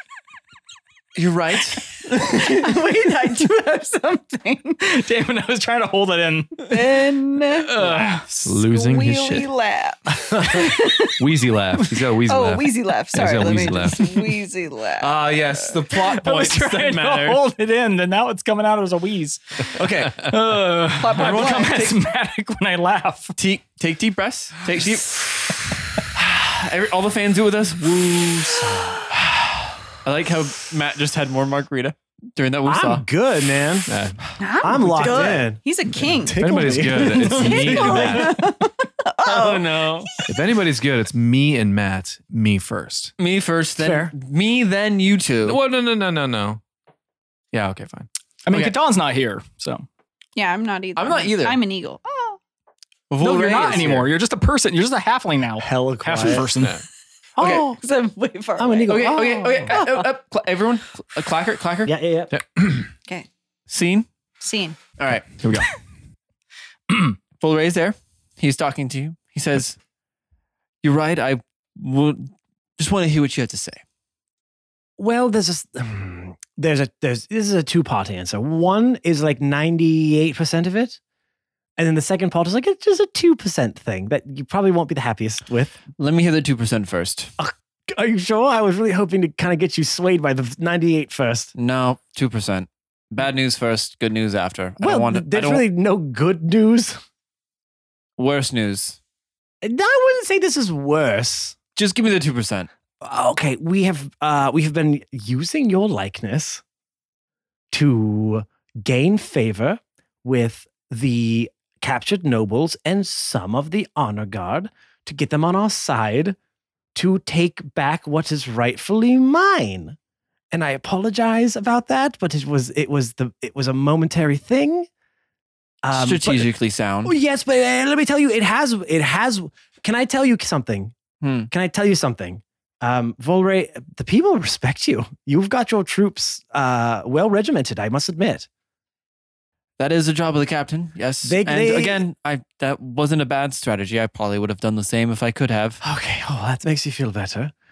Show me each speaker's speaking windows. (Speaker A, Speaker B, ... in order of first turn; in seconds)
Speaker A: 1.1-2.6, 15.0-17.4, 19.7-20.2, 21.2-21.9, 23.4-33.1, 37.2-38.5, 39.2-40.1, 43.2-45.6, 48.5-48.8, 51.0-51.6, 53.1-54.1, 57.4-57.8, 58.9-61.9, 63.7-64.1, 65.0-65.3, 67.4-69.8, 70.8-73.8, 86.0-87.3, 91.5-95.7, 98.2-99.0, 101.7-102.7, 125.9-127.1, 131.2-131.5, 139.8-145.8
Speaker B: 2.2-4.8, 6.6-8.0, 8.6-11.2, 12.2-15.1, 21.0-21.9, 34.4-36.4, 37.2-40.2, 50.4-52.4, 57.5-59.2, 59.7-60.0, 64.4-64.8
Speaker C: 4.8-6.7, 7.7-8.6, 15.9-23.4, 48.4-49.9, 53.2-56.8, 65.4-65.7, 66.9-67.2
Speaker D: 8.4-9.5, 10.5-14.1, 15.2-15.8, 33.9-34.3, 36.4-38.3, 40.3-43.1, 45.5-46.6, 47.5-48.1, 56.5-56.8, 62.3-62.7
Speaker E: 28.6-29.0, 32.6-33.9, 34.6-37.2, 43.8-44.1, 55.6-56.5, 57.4-57.8, 58.6-59.8, 61.9-62.3, 75.0-81.0, 81.8-85.8, 87.4-91.5, 94.8-97.0, 99.6-101.5, 103.0-106.6, 107.7-116.3, 116.9-120.0, 120.5-124.9, 125.8-126.5, 127.0-130.9, 131.5-138.5, 141.2-142.0, 145.8-147.5